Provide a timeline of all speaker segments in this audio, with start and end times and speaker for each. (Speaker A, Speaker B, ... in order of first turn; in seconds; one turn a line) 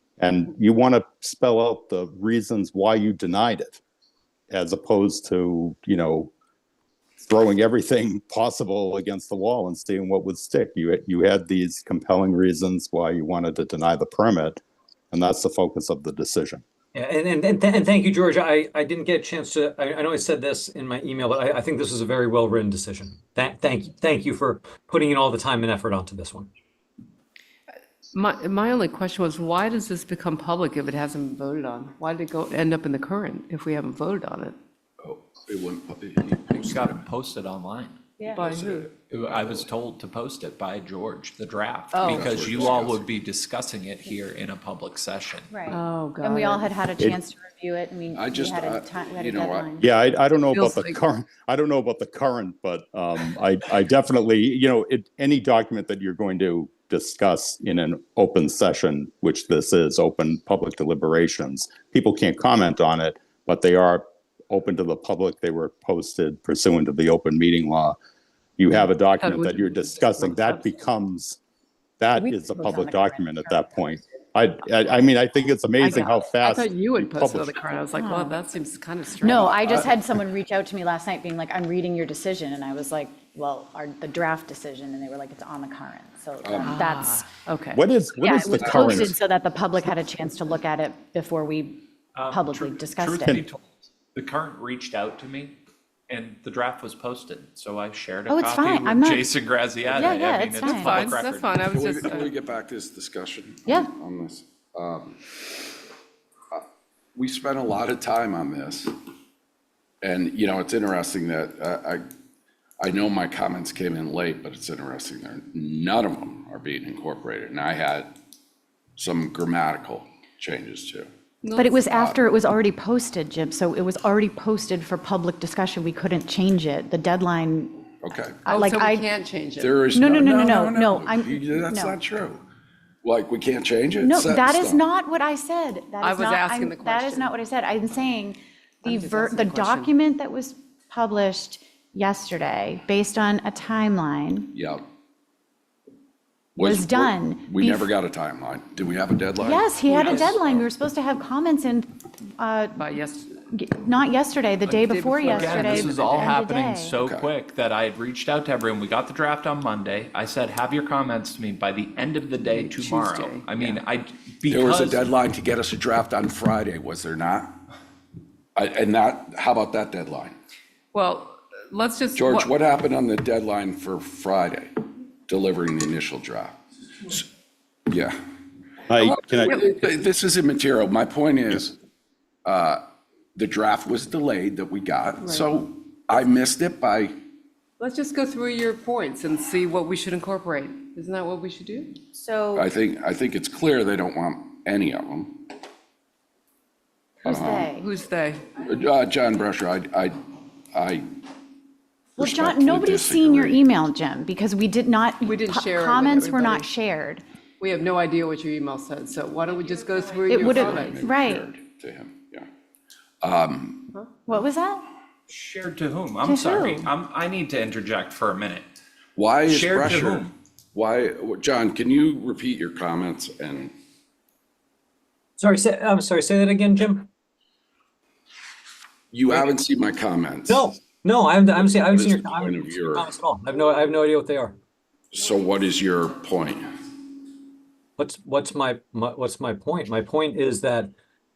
Speaker A: 0.2-3.8
Speaker A: 4.5-6.3
Speaker A: 7.2-16.6
Speaker B: 16.9-26.5
Speaker C: 28.1-34.5
Speaker D: 35.0-37.0
Speaker E: 36.5-38.0
Speaker F: 38.2-38.5
Speaker C: 38.3-38.9
Speaker D: 38.4-39.7
Speaker E: 38.9-45.5
Speaker C: 41.9-42.5
Speaker D: 42.0-43.1
Speaker F: 45.5-49.9
Speaker C: 45.7-46.8
Speaker D: 48.1-49.7
Speaker A: 49.8-68.0
Speaker C: 50.5-51.0
Speaker A: 68.6-71.4
Speaker C: 69.1-70.7
Speaker A: 72.0-77.8
Speaker F: 72.2-73.7
Speaker C: 75.8-79.6
Speaker F: 77.9-78.4
Speaker F: 79.2-87.4
Speaker D: 86.4-86.8
Speaker C: 86.6-87.8
Speaker A: 87.7-89.2
Speaker F: 88.2-93.4
Speaker D: 88.6-89.0
Speaker E: 92.2-95.6
Speaker E: 96.1-102.3
Speaker F: 98.3-99.3
Speaker F: 99.9-101.1
Speaker C: 100.0-102.3
Speaker D: 101.7-105.3
Speaker D: 107.2-108.9
Speaker D: 110.0-112.0
Speaker D: 112.8-118.1
Speaker D: 119.0-121.1
Speaker C: 121.4-121.9
Speaker F: 121.5-127.8
Speaker D: 128.0-128.5
Speaker F: 128.5-129.1
Speaker C: 128.5-129.9
Speaker D: 129.6-132.4
Speaker F: 129.9-132.0
Speaker D: 133.0-134.8
Speaker F: 134.0-144.5
Speaker C: 136.0-137.3
Speaker C: 138.8-139.9
Speaker D: 144.5-144.8
Speaker D: 146.6-150.6
Speaker F: 146.6-147.9
Speaker F: 149.4-152.8
Speaker C: 150.0-150.2
Speaker C: 152.8-153.4
Speaker F: 153.5-156.9
Speaker C: 154.7-156.3
Speaker E: 155.2-165.1
Speaker D: 157.0-157.3
Speaker C: 162.5-163.7
Speaker D: 164.5-167.5
Speaker D: 168.6-170.3
Speaker C: 170.9-172.5
Speaker D: 172.2-177.2
Speaker D: 177.9-178.2
Speaker A: 178.9-179.6
Speaker D: 179.0-181.8
Speaker D: 182.4-182.8
Speaker D: 183.4-187.2
Speaker C: 187.8-192.1
Speaker F: 192.1-192.6
Speaker D: 192.6-195.4
Speaker D: 197.2-197.7
Speaker F: 197.2-197.9
Speaker C: 197.8-198.5
Speaker D: 198.6-200.1
Speaker D: 200.7-201.0
Speaker D: 202.2-203.6
Speaker F: 202.2-207.2
Speaker C: 205.2-206.7
Speaker C: 207.6-211.0
Speaker F: 210.3-211.4
Speaker D: 210.3-212.5
Speaker D: 213.2-213.9
Speaker F: 214.3-214.9
Speaker E: 215.3-218.7
Speaker F: 216.2-216.9
Speaker D: 219.2-223.7
Speaker E: 219.4-220.3
Speaker B: 225.4-227.1
Speaker D: 229.1-230.7
Speaker B: 230.5-234.6
Speaker D: 231.7-233.1
Speaker D: 235.1-236.7
Speaker B: 238.0-240.9